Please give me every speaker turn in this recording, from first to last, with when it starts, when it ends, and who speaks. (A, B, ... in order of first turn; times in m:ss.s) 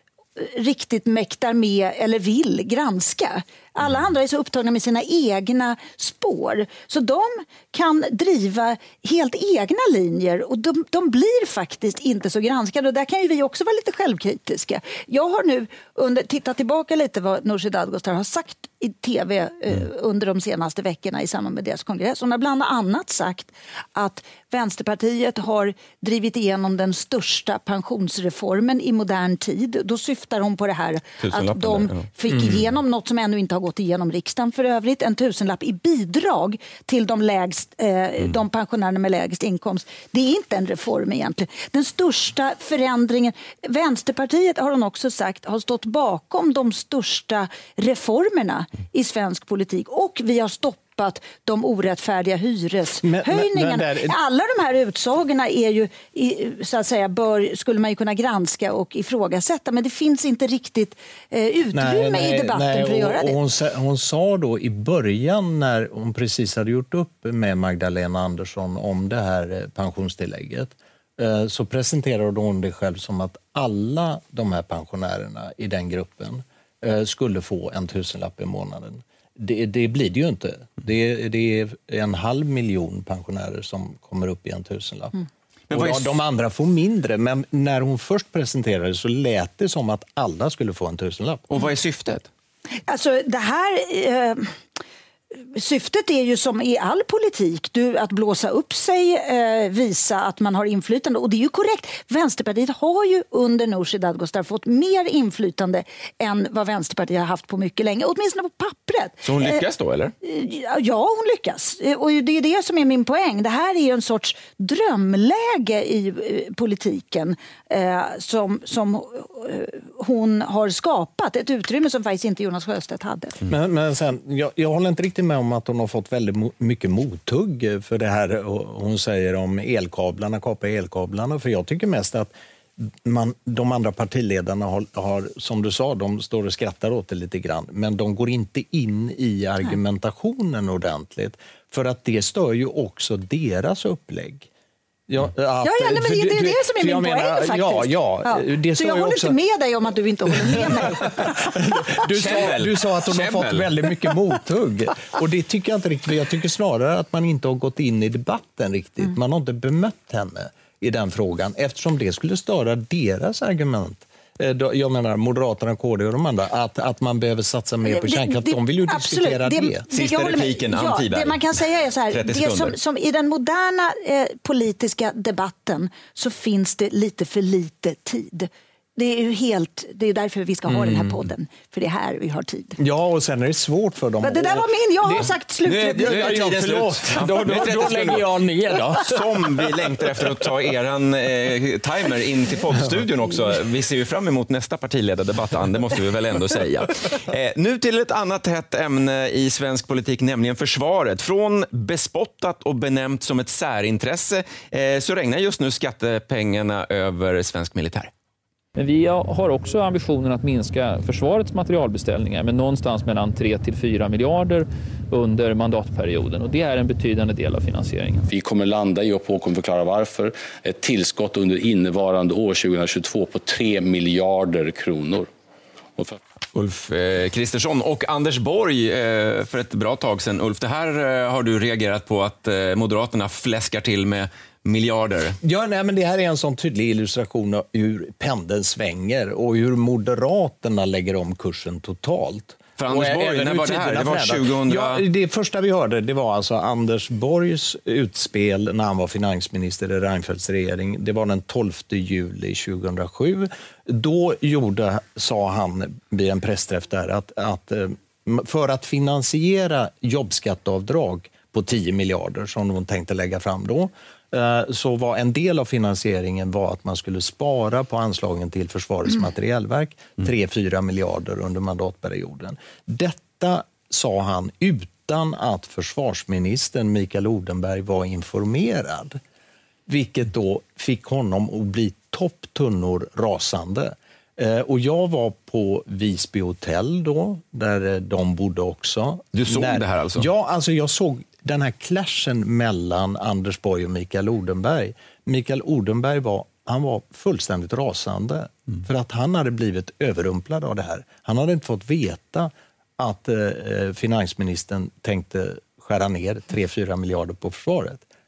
0:00.4-1:03.4 A
0:31.2-0:32.0 B
0:32.3-0:32.6 C
0:53.0-0:54.2 C
1:01.7-1:25.2 C
1:25.7-1:26.2 B
1:25.7-1:31.4 C
1:31.5-1:32.3 B
1:32.9-1:34.5 A
1:35.5-1:49.6 A
1:49.2-1:50.1 B
1:50.2-2:03.4 A
2:03.5-2:24.5 C
2:25.1-2:29.4 C
2:25.6-2:32.0 A
2:30.3-2:49.8 C
2:32.1-2:33.7 B
2:47.8-3:02.8 A
2:49.9-2:51.4 B
2:52.1-2:52.8 B
3:00.7-3:01.2 C
3:02.8-3:10.3 C
3:04.2-3:06.5 A
3:06.0-3:28.1 B
3:28.8-3:38.3 D
3:38.3-3:45.3 E
3:46.5-3:55.4 B
3:55.4-4:39.2 C
4:02.8-4:05.0 B
4:39.9-5:08.0 C
4:49.3-4:50.3 B